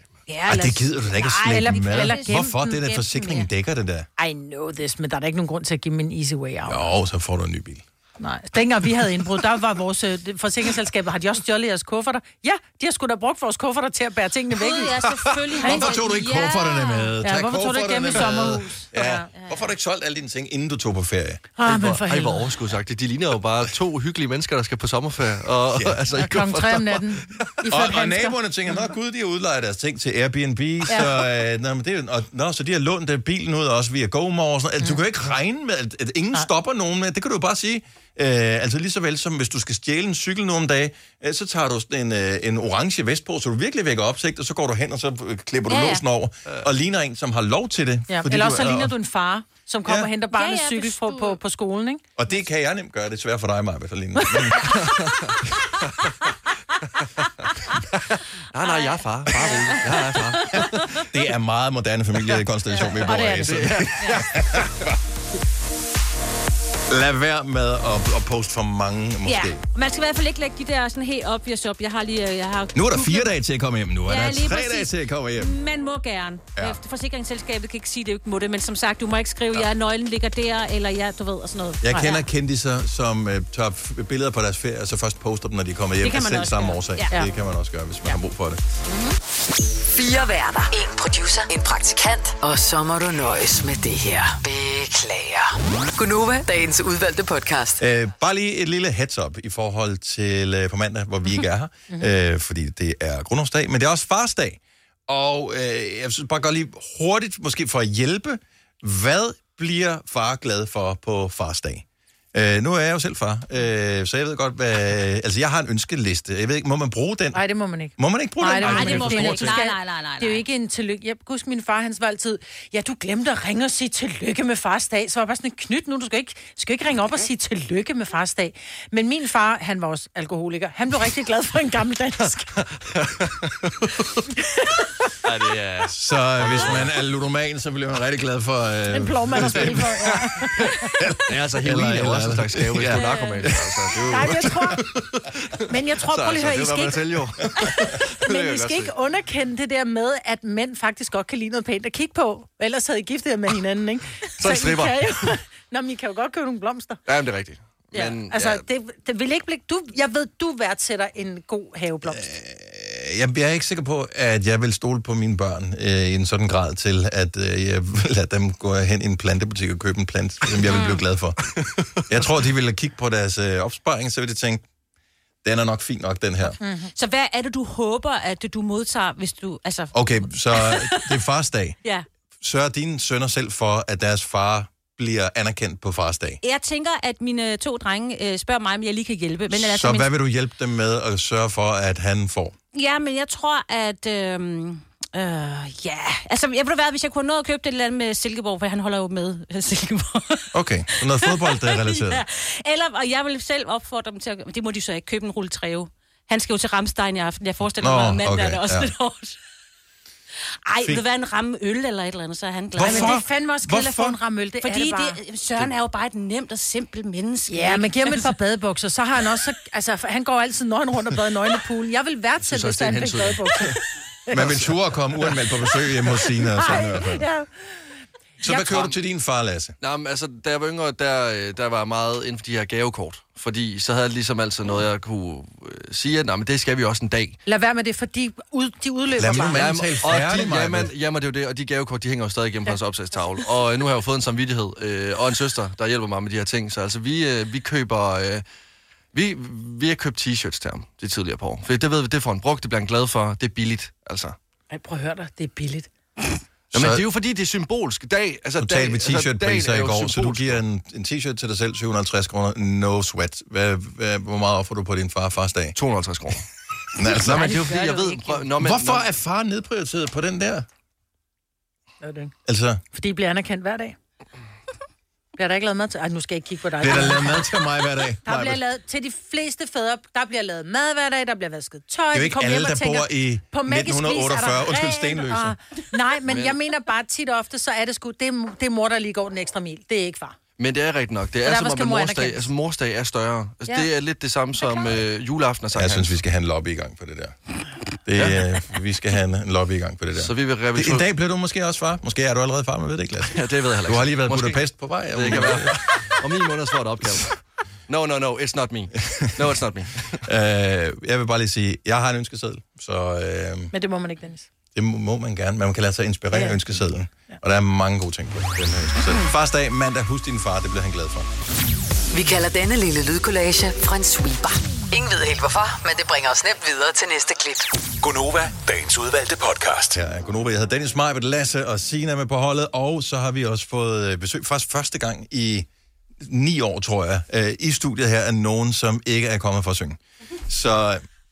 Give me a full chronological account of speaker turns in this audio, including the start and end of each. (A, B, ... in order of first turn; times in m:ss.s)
0:00.3-0:03.5 A
0:00.5-0:04.1 B
0:01.5-0:02.8 C
0:04.2-0:06.8 C
0:06.7-0:07.8 B
0:08.2-0:15.0 C
0:14.6-0:17.1 A
0:15.6-0:21.4 B
0:15.6-0:15.9 C
0:17.2-0:19.3 C
0:21.6-0:22.5 C
0:21.6-0:27.2 D
0:25.7-0:26.0 B
0:26.1-0:28.4 C
0:27.6-0:48.9 B
0:45.7-0:46.0 A
0:48.1-0:52.0 C
0:50.3-0:51.4 A
0:52.2-0:54.9 B
0:54.5-0:54.8 A
0:54.8-0:55.2 D
0:58.1-1:01.0 D
0:58.6-1:00.9 A
1:01.0-1:04.9 B
1:02.3-1:04.9 D
1:03.0-1:03.7 C
1:06.9-1:09.6 B
1:09.2-1:13.3 A
1:12.7-1:15.5 B
1:14.0-1:22.2 A
1:21.8-1:28.6 B
1:26.0-1:27.1 A
1:28.9-1:29.2 A
1:29.9-1:37.8 E
1:37.8-1:57.4 B
1:57.3-2:12.6 C
1:58.0-1:59.6 B
1:58.6-2:00.4 A
2:12.7-2:14.0 D
2:14.4-2:14.9 C
2:15.2-2:17.0 D
2:15.9-2:20.1 B
2:18.9-2:20.9 C
2:19.3-2:28.9 D
2:20.9-2:23.8 B
2:22.9-2:23.4 A
2:24.0-2:24.8 C
2:25.7-2:37.0 C
2:34.4-2:35.2 D
2:37.0-2:38.6 D
2:37.9-2:42.3 C
2:42.0-2:51.4 B
2:50.6-2:51.0 A
2:52.1-2:54.6 B
2:55.4-2:56.6 B
2:56.6-2:56.9 C
2:56.9-3:01.2 A
2:59.9-3:01.8 B
3:02.4-3:06.4 B
3:06.4-3:10.1 A
3:09.5-3:12.5 B
3:12.7-3:29.4 A
3:20.5-3:22.2 B
3:27.8-3:28.9 B
3:30.6-3:33.2 A
3:32.8-3:34.2 B
3:32.8-3:35.2 C
3:34.6-3:38.3 A
3:37.5-3:44.5 C
3:42.4-3:43.7 D
3:44.3-3:47.3 B
3:44.4-3:44.6 D
3:46.2-3:47.7 C
3:48.4-3:49.8 B
3:49.8-3:57.4 D
3:57.4-3:59.6 C
3:59.2-4:00.9 B
3:59.5-4:08.4 D
4:09.1-4:14.4 D
4:14.7-4:15.9 C
4:16.7-4:17.1 B
4:16.7-4:20.6 D
4:18.6-4:25.8 B
4:25.8-4:26.4 D
4:26.9-4:27.6 B
4:27.0-4:29.0 D
4:27.7-4:28.1 A
4:27.7-4:28.2 C
4:28.6-4:30.6 B
4:32.0-4:32.3 C
4:32.4-4:32.8 B
4:32.9-4:34.0 C
4:35.4-4:37.6 C
4:36.8-4:38.6 B
4:38.2-4:50.4 C
4:42.1-4:45.5 B
4:46.2-4:46.6 D
4:50.6-4:56.1 D
4:51.4-4:52.5 C
4:55.7-4:57.3 B
4:58.0-5:05.9 B
5:00.2-5:01.0 D
5:03.3-5:10.2 D
5:10.2-5:13.7 B
5:13.7-5:14.5 C
5:14.7-5:21.3 B
5:16.3-5:16.6 C
5:22.1-5:27.7 E
5:28.0-5:30.0 F
5:29.9-5:35.7 B
5:36.2-5:41.0 B